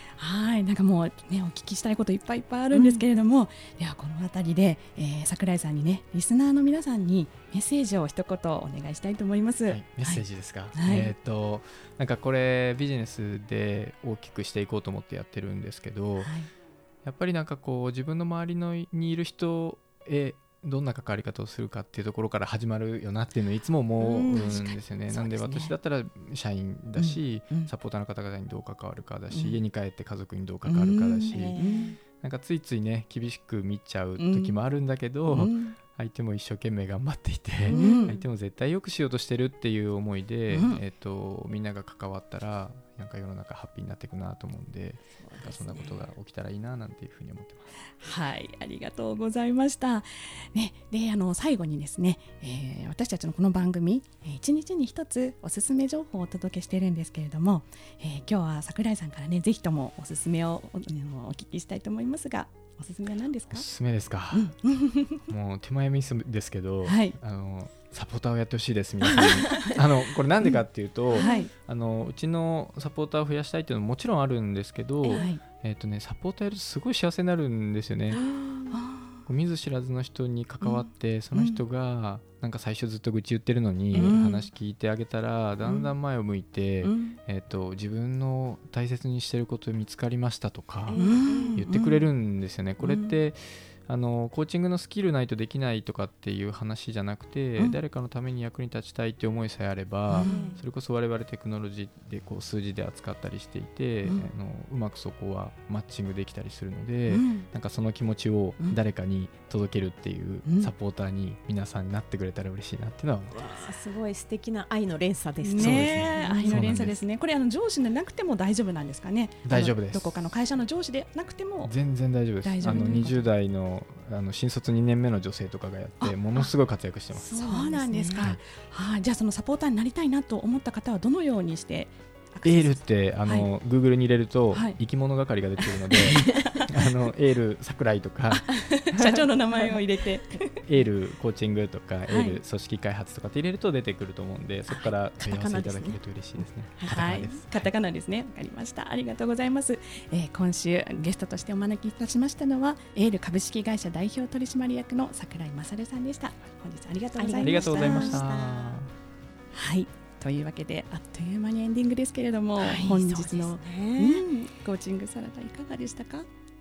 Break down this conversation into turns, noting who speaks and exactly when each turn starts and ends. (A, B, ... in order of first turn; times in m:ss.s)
0:00.2-0:11.1 A
0:02.7-0:03.0 B
0:09.7-0:16.3 C
0:16.2-0:16.5 A
0:17.0-0:47.7 C
0:24.0-0:24.7 B
0:25.2-0:25.7 A
0:27.0-0:27.7 A
0:29.3-0:29.6 A
0:30.6-0:31.9 A
0:31.3-0:32.0 B
0:34.2-0:34.6 A
0:35.3-0:35.8 A
0:37.7-0:38.2 B
0:37.7-0:38.2 A
0:40.5-0:40.8 A
0:45.2-0:46.1 B
0:48.0-1:03.7 A
1:03.5-1:04.6 C
1:04.3-1:05.3 A
1:05.3-1:18.2 C
1:06.8-1:07.2 A
1:09.1-1:09.8 A
1:11.1-1:11.5 A
1:15.1-1:15.4 A
1:18.4-1:18.7 B
1:18.7-1:19.2 A
1:19.2-1:53.4 C
1:20.6-1:21.6 A
1:23.9-1:24.5 A
1:26.8-1:27.2 A
1:30.8-1:31.6 B
1:31.0-1:32.1 A
1:32.8-1:33.2 A
1:40.1-1:40.5 A
1:40.2-1:40.6 B
1:47.1-1:47.4 A
1:50.4-1:50.7 A
1:53.3-1:56.8 B
1:55.4-2:01.7 A
1:55.6-1:57.0 C
1:59.4-2:00.3 C
2:01.6-2:07.4 C
2:02.4-2:03.3 A
2:02.6-2:03.0 B
2:07.1-2:08.3 B
2:07.4-2:13.5 A
2:12.4-2:19.2 C
2:14.5-2:14.8 A
2:16.0-2:16.6 B
2:16.2-2:16.7 A
2:18.3-2:20.6 A
2:20.6-2:27.6 C
2:22.1-2:22.4 A
2:24.7-2:26.0 B
2:26.8-2:27.3 B
2:26.9-2:38.2 A
2:37.2-2:38.8 B
2:37.4-2:38.9 C
2:39.5-2:46.3 A
2:42.6-2:44.2 B